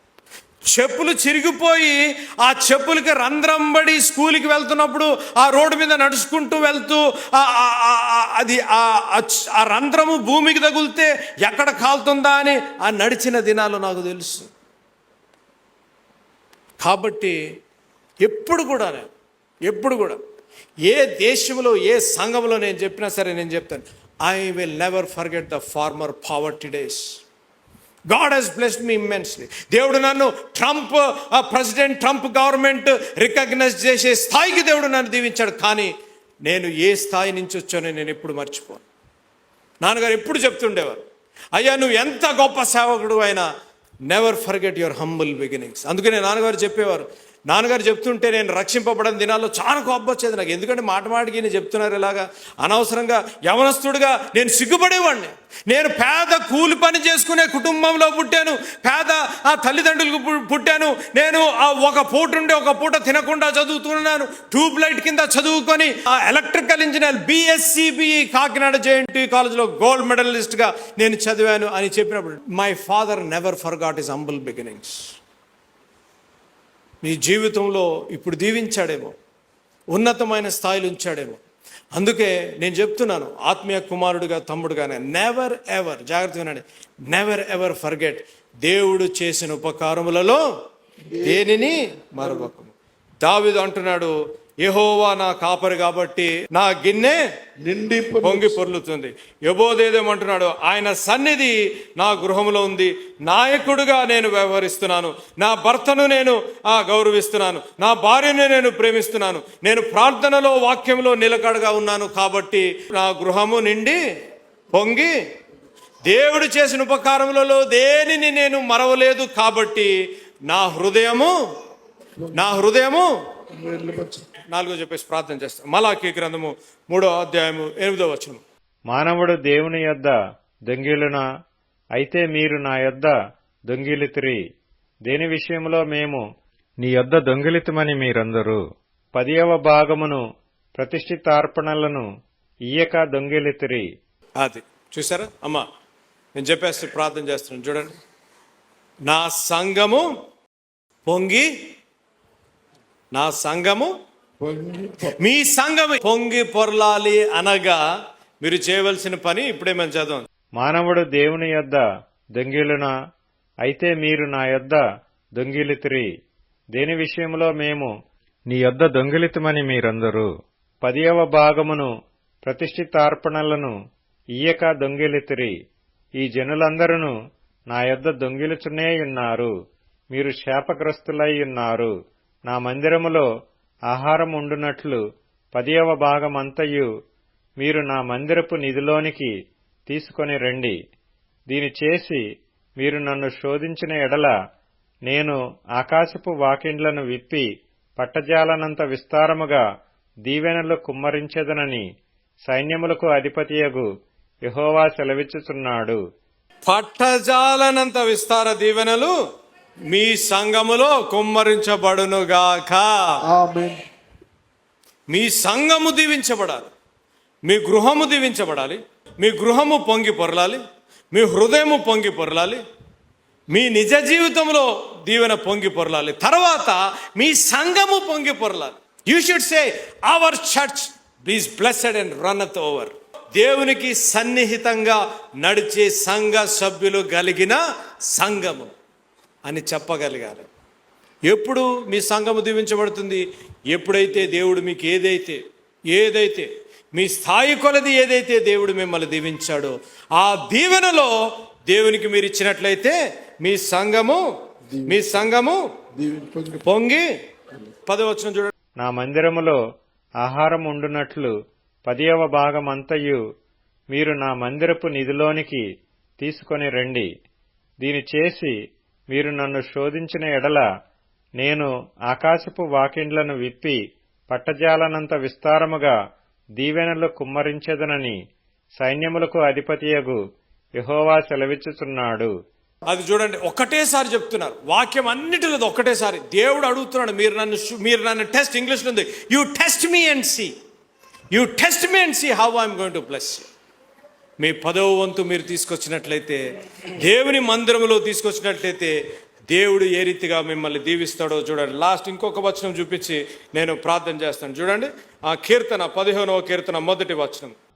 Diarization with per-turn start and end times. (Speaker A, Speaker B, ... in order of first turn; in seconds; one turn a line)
Speaker A: 0.7-14.5
Speaker A: 16.8-17.4
Speaker A: 18.2-19.1
Speaker A: 19.6-20.2
Speaker A: 20.9-27.2
Speaker A: 28.1-35.9
Speaker A: 36.5-38.8
Speaker A: 39.8-43.5
Speaker A: 44.1-75.1
Speaker A: 77.0-79.2
Speaker A: 79.9-81.4
Speaker A: 82.0-90.4
Speaker B: 91.1-92.5
Speaker A: 91.2-97.2
Speaker B: 97.6-98.7
Speaker A: 98.2-114.0
Speaker A: 114.7-115.1
Speaker A: 116.0-119.9
Speaker A: 120.5-121.3
Speaker B: 122.2-122.5
Speaker A: 122.3-123.1
Speaker B: 123.5-124.3
Speaker A: 124.5-128.4
Speaker C: 128.9-130.1
Speaker C: 130.7-131.2
Speaker C: 132.0-133.1
Speaker C: 133.7-134.4
Speaker C: 135.1-136.2
Speaker C: 136.8-138.6
Speaker C: 139.2-140.2
Speaker C: 140.8-142.1
Speaker C: 142.7-143.9
Speaker A: 144.4-145.7
Speaker A: 146.3-148.0
Speaker A: 149.1-150.1
Speaker A: 151.1-151.5
Speaker A: 153.1-153.9
Speaker B: 154.4-155.1
Speaker A: 155.2-157.8
Speaker A: 158.4-160.2
Speaker C: 160.6-161.8
Speaker C: 162.4-162.9
Speaker C: 163.6-164.8
Speaker C: 165.4-166.1
Speaker C: 166.8-167.9
Speaker C: 168.5-170.3
Speaker C: 170.8-171.9
Speaker C: 172.4-173.7
Speaker C: 174.4-175.6
Speaker C: 176.2-177.1
Speaker C: 177.7-179.5
Speaker C: 180.1-181.9
Speaker C: 182.5-183.3
Speaker C: 183.9-185.0
Speaker C: 185.5-186.9
Speaker C: 187.6-189.3
Speaker C: 189.9-190.8
Speaker C: 191.5-192.2
Speaker C: 192.8-194.3
Speaker C: 195.1-197.4
Speaker C: 198.0-199.6
Speaker C: 200.3-201.8
Speaker C: 202.5-203.9
Speaker C: 204.5-206.0
Speaker A: 206.7-209.1
Speaker A: 209.9-213.1
Speaker B: 213.2-213.8
Speaker A: 215.1-216.7
Speaker A: 217.4-220.6
Speaker A: 221.1-222.6
Speaker A: 223.5-237.6
Speaker A: 238.1-238.7
Speaker A: 239.4-240.5
Speaker A: 241.3-251.1
Speaker A: 251.7-254.2
Speaker B: 254.7-255.3
Speaker A: 254.9-255.6
Speaker B: 255.9-256.6
Speaker A: 256.6-257.1
Speaker A: 257.9-258.5
Speaker C: 258.8-259.6
Speaker C: 260.2-261.3
Speaker C: 261.9-263.2
Speaker C: 263.9-265.6
Speaker C: 266.2-267.1
Speaker C: 267.8-268.5
Speaker C: 269.1-270.6
Speaker C: 271.4-273.8
Speaker C: 274.3-275.9
Speaker C: 276.6-278.2
Speaker C: 278.8-280.2
Speaker C: 280.8-282.3
Speaker A: 282.9-290.5
Speaker A: 291.3-293.5
Speaker A: 294.4-296.4
Speaker A: 297.0-298.9
Speaker A: 299.5-307.5